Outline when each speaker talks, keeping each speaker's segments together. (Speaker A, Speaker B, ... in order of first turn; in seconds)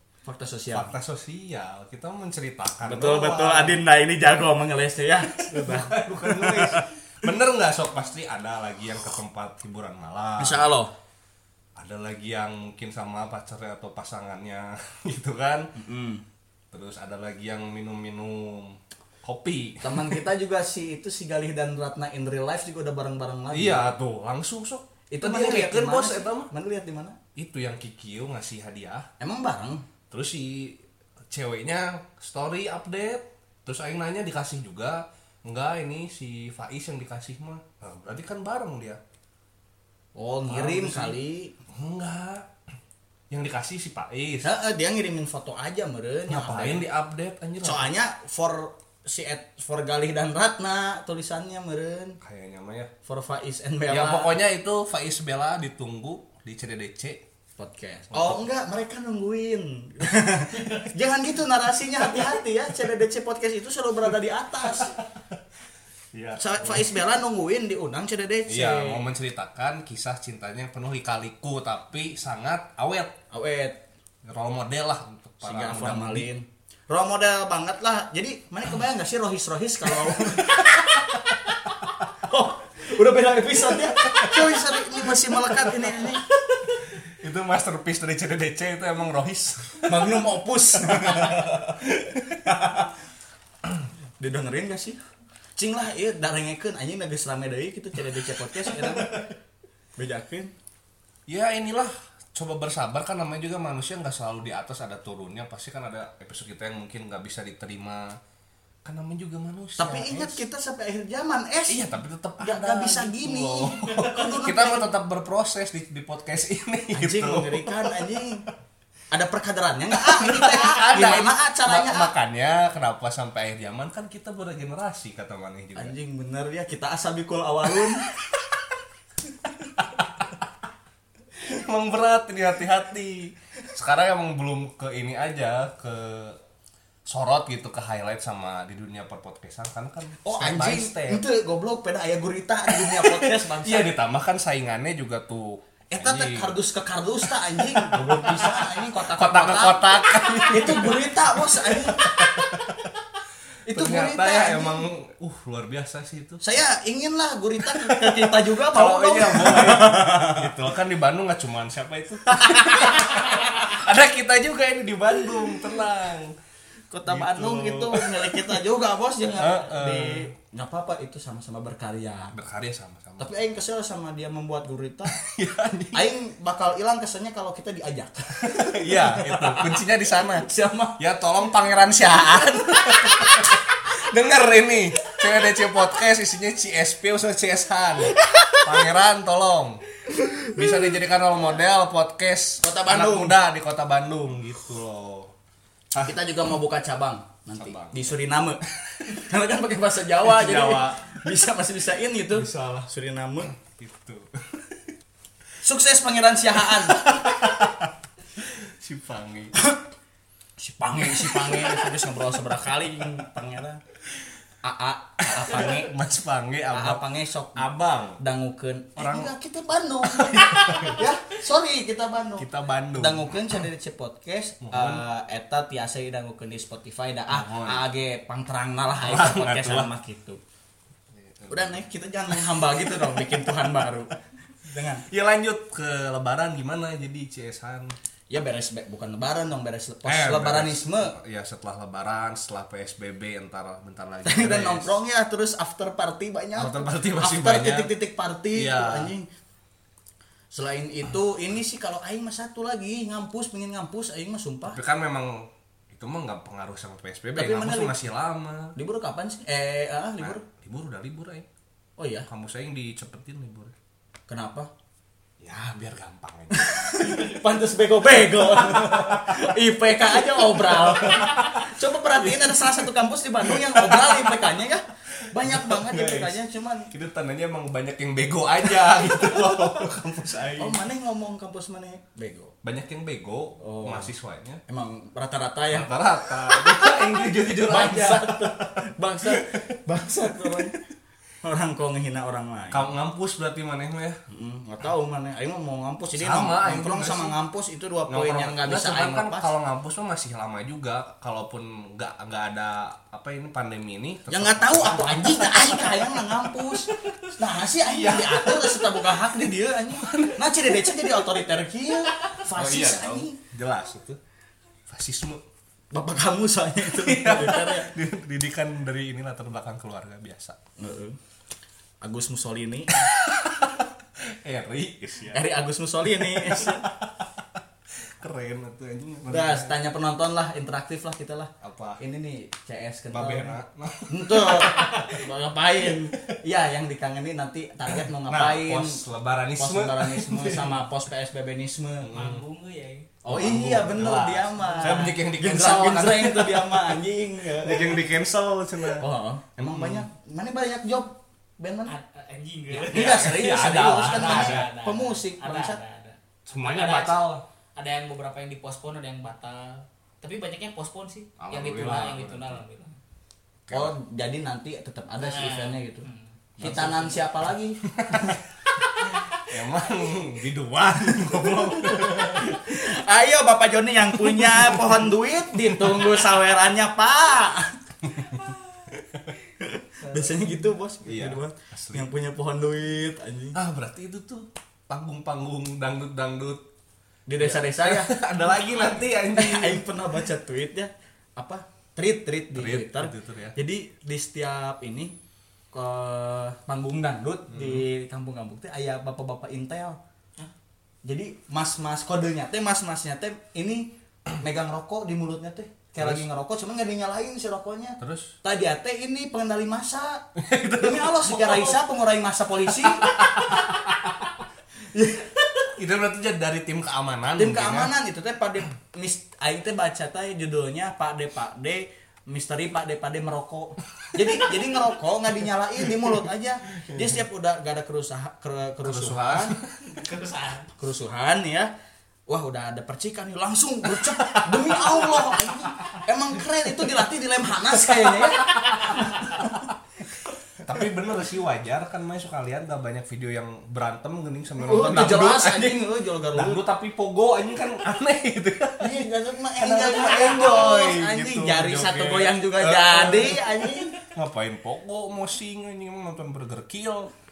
Speaker A: 0.2-0.9, 2.8-6.9, 10.4-10.9, 15.8-16.2, 19.8-23.9, 25.1-27.2, 29.2-29.8, 40.1-41.5, 44.4-46.9, 47.6-52.2, 53.0-54.4, 57.6-65.0, 66.4-69.0, 73.3-73.8, 75.4-86.3, 89.9-91.8, 92.4-92.9, 94.2-95.0, 95.6-99.3, 100.0-100.5, 109.8-111.8, 112.4-114.9, 116.9-118.5, 119.1-122.1, 125.8-128.1, 140.2-143.9, 145.9-149.9, 150.4-152.7, 153.7-154.9, 156.4-160.5, 162.3-163.5, 166.9-172.3, 173.2-175.2, 175.9-181.0, 182.9-183.4, 188.2-188.7, 190.1-190.8, 192.6-193.4, 196.0-203.5, 205.6-207.4, 210.6-213.8, 214.6-215.9, 216.7-230.4, 231.5-235.1, 238.3-241.2, 244.2-249.3, 250.5-254.8, 257.3-257.9, 258.8-260.4, 262.0-262.3, 264.3-264.7, 266.5-276.9, 280.6-282.6, 283.6-284.1, 284.7-286.9, 287.6-290.8, 291.4-292.9, 294.3-299.5, 304.3-313.4, 315.9-317.9, 320.8-321.2, 322.0-323.1, 325.3-326.9, 329.3-333.6, 334.1-339.0, 339.6-342.1, 343.2-348.1, 349.0-351.9, 352.8-355.8, 363.7-366.1, 366.6-368.4, 371.0-378.4, 379.6-383.6, 387.3-388.2, 389.3-395.2, 395.7-400.0, 401.1-410.3, 410.8-413.8, 414.9-415.5, 417.4-429.6, 430.8-431.7, 432.3-439.6, 444.6-446.6, 448.8-454.0
Speaker B: 0.7-3.8, 5.3-10.7, 11.8-15.7, 16.7-20.2, 23.5-26.5, 27.4-29.1, 30.1-39.0, 40.5-41.2, 41.7-42.5, 43.3-44.5, 46.3-47.9, 52.2-52.9, 53.9-57.2, 58.1-58.4, 64.7-65.0, 66.1-67.0, 68.5-73.2, 74.2-76.3, 80.0-81.3, 83.7-86.2, 87.0-90.2, 90.8-92.5, 98.4-99.3, 101.3-108.2, 108.8-110.4, 111.7-118.0, 119.9-125.9, 127.7-128.6, 129.7-130.3, 131.4-136.4, 137.1-141.2, 142.7-146.6, 147.2-152.9, 153.7-156.4, 157.6-166.3, 167.1-168.6, 169.3-170.3, 172.3-173.3, 175.1-176.0, 178.4-189.8, 190.5-195.3, 195.9-196.2, 197.6-198.2, 198.8-199.2, 200.2-201.2, 202.3-202.8, 203.4-204.8, 206.7-209.6, 211.0-212.0, 215.2-218.2, 219.0-219.3, 220.0-221.1, 222.4-223.7, 224.6-225.0, 227.3-227.8, 229.0-229.9, 231.1-233.6, 235.1-237.9, 240.1-244.9, 246.6-247.9, 248.5-249.1, 254.7-258.8, 260.2-261.5, 262.3-263.7, 265.4-267.5, 268.2-269.6, 270.1-272.9, 273.4-274.6, 275.3-276.4, 276.9-280.8, 282.6-284.6, 285.7-290.8, 292.7-294.2, 296.1-297.4, 298.1-311.3, 312.5-314.2, 314.9-315.4, 316.8-320.6, 322.9-325.4, 326.2-327.6, 328.2-329.8, 331.6-332.0, 333.1-334.9, 335.8-336.2, 338.0-340.8, 342.0-342.4, 343.3-349.1, 349.6-350.1, 352.8-354.7, 356.5-357.4, 361.4-362.6, 363.7-364.0, 366.6-367.1, 367.8-368.4, 369.4-372.7, 374.1-376.3, 378.9-379.3, 381.0-382.1, 383.5-386.7, 387.4-389.9, 392.6-393.6, 397.5-397.9, 406.0-406.3, 408.0-408.3, 410.4-411.8, 412.8-414.2, 415.7-417.9, 428.8-429.9, 433.9-435.4, 437.6-439.7, 440.6-449.1, 449.6-457.1
Speaker C: 334.7-335.1, 342.1-343.1, 344.8-345.1, 351.9-363.0, 365.2-367.2, 369.0-369.4, 380.1-380.4, 429.8-430.7, 438.4-439.4